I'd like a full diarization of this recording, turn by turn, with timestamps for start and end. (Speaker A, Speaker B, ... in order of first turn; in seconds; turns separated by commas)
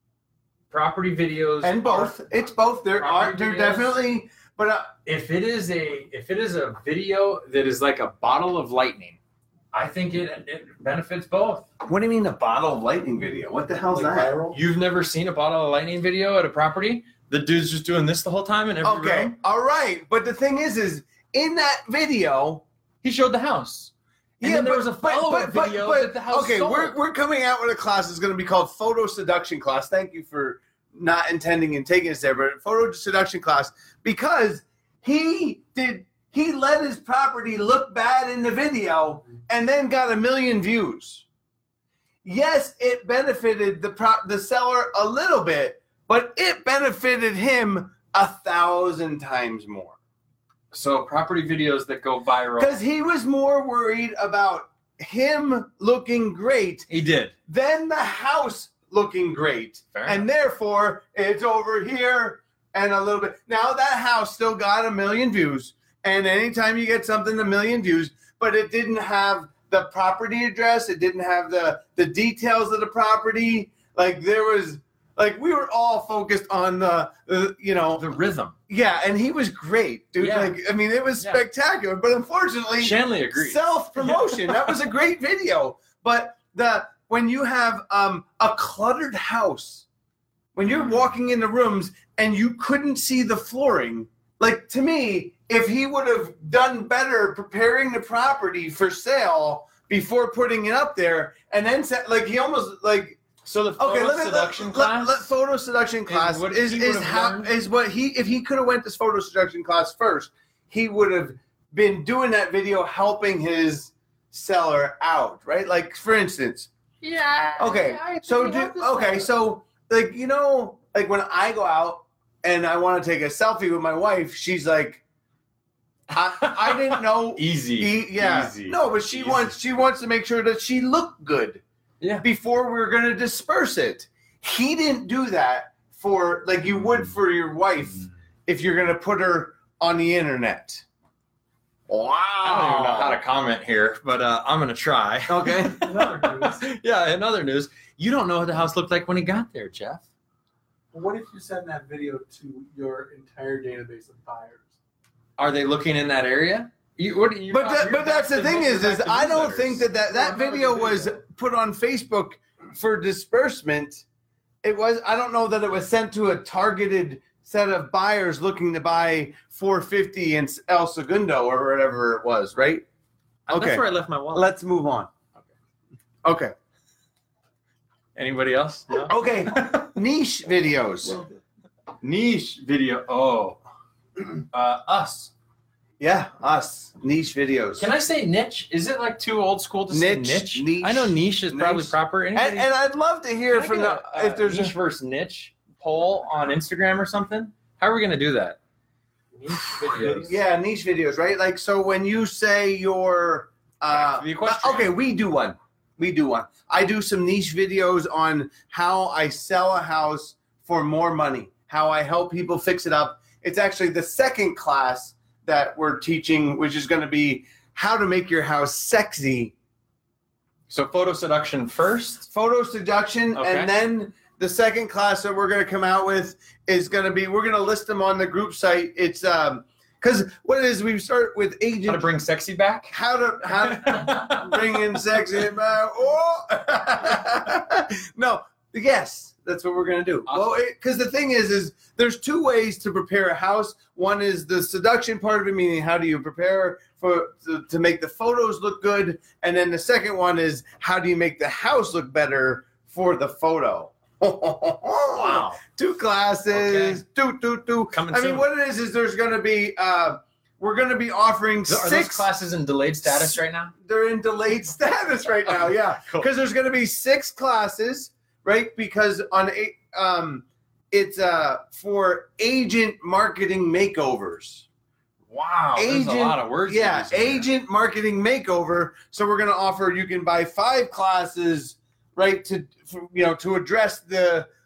Speaker A: 0.7-2.2, Speaker B: 1.6-4.9, Speaker A: 2.9-4.0, Speaker A: 5.0-9.2, Speaker A: 9.7-11.7, Speaker B: 11.8-14.3, Speaker C: 13.9-14.6, Speaker A: 14.5-19.3, Speaker B: 18.8-22.6, Speaker A: 23.0-27.0, Speaker B: 24.4-41.2, Speaker B: 42.2-50.0, Speaker A: 50.7-52.8, Speaker B: 52.6-56.9, Speaker A: 56.9-57.3, Speaker B: 57.5-78.0, Speaker A: 59.9-60.2, Speaker A: 77.9-78.5, Speaker B: 78.7-89.8, Speaker A: 80.2-80.6, Speaker A: 81.2-81.4, Speaker A: 82.8-84.7, Speaker B: 90.5-116.7, Speaker A: 90.7-90.9, Speaker A: 103.4-105.3, Speaker A: 106.1-107.5, Speaker A: 117.0-119.3, Speaker B: 117.6-125.0, Speaker B: 126.1-131.6, Speaker A: 126.2-129.5, Speaker A: 132.0-132.2, Speaker B: 132.2-140.8, Speaker B: 141.9-143.2, Speaker A: 142.4-150.0, Speaker B: 145.3-146.1, Speaker C: 145.8-146.6, Speaker C: 150.9-154.7, Speaker A: 155.4-159.8, Speaker B: 157.5-164.0, Speaker C: 159.9-161.2, Speaker B: 164.6-172.8, Speaker B: 173.5-175.1, Speaker A: 173.5-174.5, Speaker B: 176.2-176.5, Speaker A: 178.2-179.9, Speaker B: 179.0-181.2, Speaker A: 182.0-183.6, Speaker A: 184.5-185.3, Speaker B: 186.0-187.9, Speaker A: 187.8-192.7, Speaker B: 189.9-194.7, Speaker A: 193.5-198.6, Speaker A: 199.3-200.4, Speaker B: 199.8-219.5, Speaker A: 203.9-204.9, Speaker A: 220.7-222.3, Speaker B: 222.3-232.1, Speaker A: 223.3-223.7, Speaker A: 231.8-232.9, Speaker B: 232.9-262.3, Speaker A: 233.6-235.0, Speaker A: 240.2-240.6, Speaker A: 255.1-255.6, Speaker A: 256.5-257.0, Speaker A: 257.9-258.4, Speaker A: 261.7-263.7, Speaker B: 263.0-274.6, Speaker A: 265.5-266.3, Speaker A: 275.3-277.5, Speaker B: 275.8-284.5